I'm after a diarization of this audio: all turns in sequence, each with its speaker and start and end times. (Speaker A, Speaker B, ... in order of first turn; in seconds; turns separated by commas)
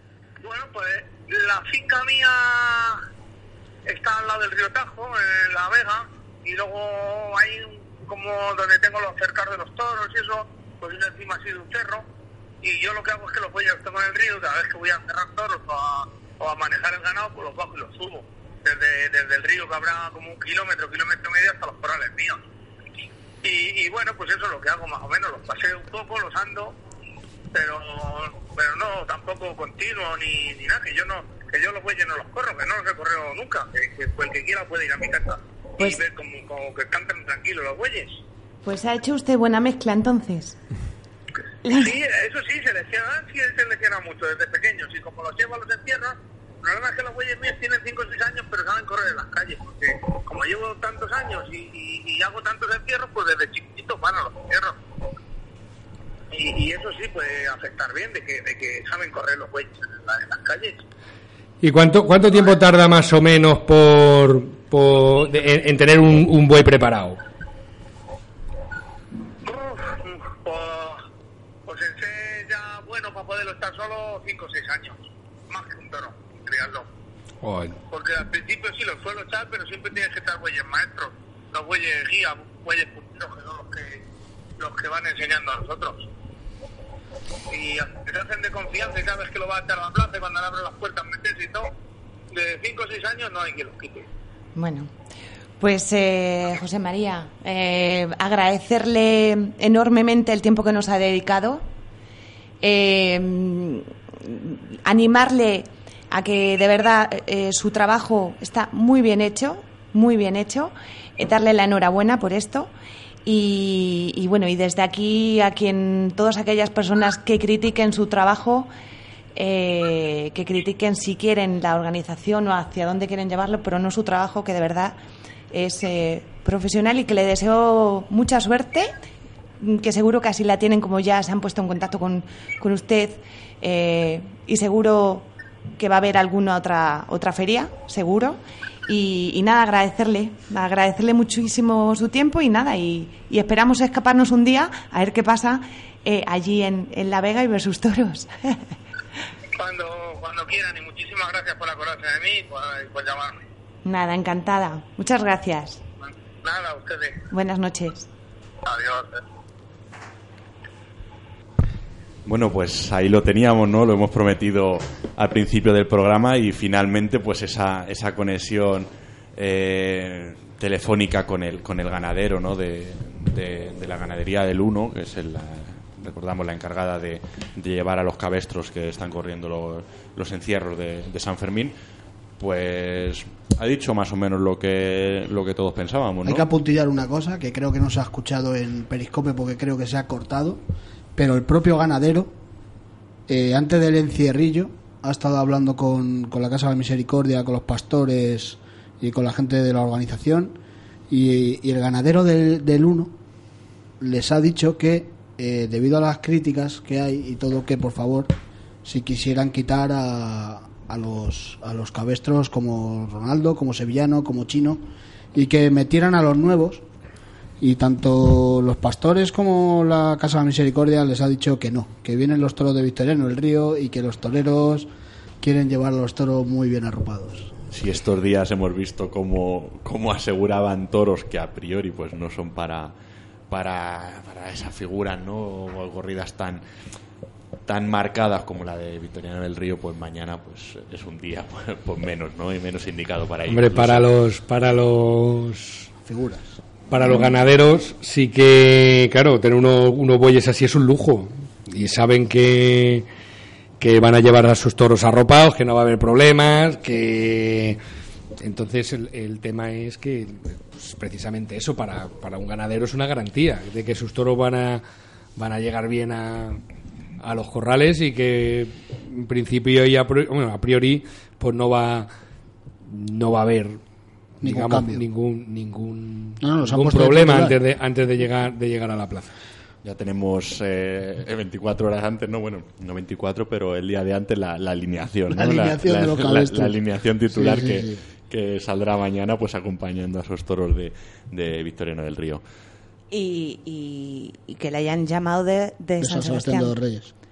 Speaker A: 0.4-3.0, Speaker A: 3.9-12.1, Speaker A: 12.6-22.4, Speaker A: 23.4-26.8, Speaker A: 27.5-38.2, Speaker B: 38.6-40.6, Speaker B: 41.6-41.9, Speaker A: 41.7-54.8, Speaker A: 56.3-60.8, Speaker C: 61.6-67.2, Speaker A: 69.4-71.0, Speaker A: 71.7-76.9, Speaker C: 77.4-77.8, Speaker A: 77.9-84.0, Speaker A: 84.6-86.1, Speaker A: 87.5-91.7, Speaker A: 92.3-94.1, Speaker B: 94.6-94.9, Speaker B: 95.6-101.7, Speaker B: 102.6-112.7, Speaker B: 113.3-118.7, Speaker B: 119.4-125.0, Speaker B: 125.5-128.9, Speaker B: 129.6-148.6, Speaker A: 149.6-153.4, Speaker B: 153.8-155.8, Speaker A: 156.1-157.2, Speaker B: 157.3-158.1, Speaker A: 158.7-159.2, Speaker D: 162.3-181.7, Speaker D: 182.4-186.5, Speaker E: 186.2-190.6, Speaker E: 191.2-192.3, Speaker E: 193.3-200.6, Speaker E: 201.1-203.1, Speaker E: 204.0-208.3, Speaker E: 208.8-216.8, Speaker E: 217.6-224.9, Speaker E: 225.4-227.5, Speaker D: 227.7-232.9, Speaker D: 233.5-236.6, Speaker D: 237.7-244.1, Speaker C: 243.5-245.9, Speaker E: 246.1-246.6, Speaker C: 246.9-253.1, Speaker C: 253.8-257.8, Speaker C: 258.4-264.8, Speaker C: 265.4-266.6, Speaker C: 267.2-272.1, Speaker C: 272.9-273.8, Speaker C: 274.4-279.3, Speaker E: 274.4-275.0, Speaker E: 276.4-277.6, Speaker D: 279.8-292.4, Speaker E: 285.3-286.8, Speaker E: 287.3-288.0, Speaker B: 293.1-296.8, Speaker E: 296.0-297.1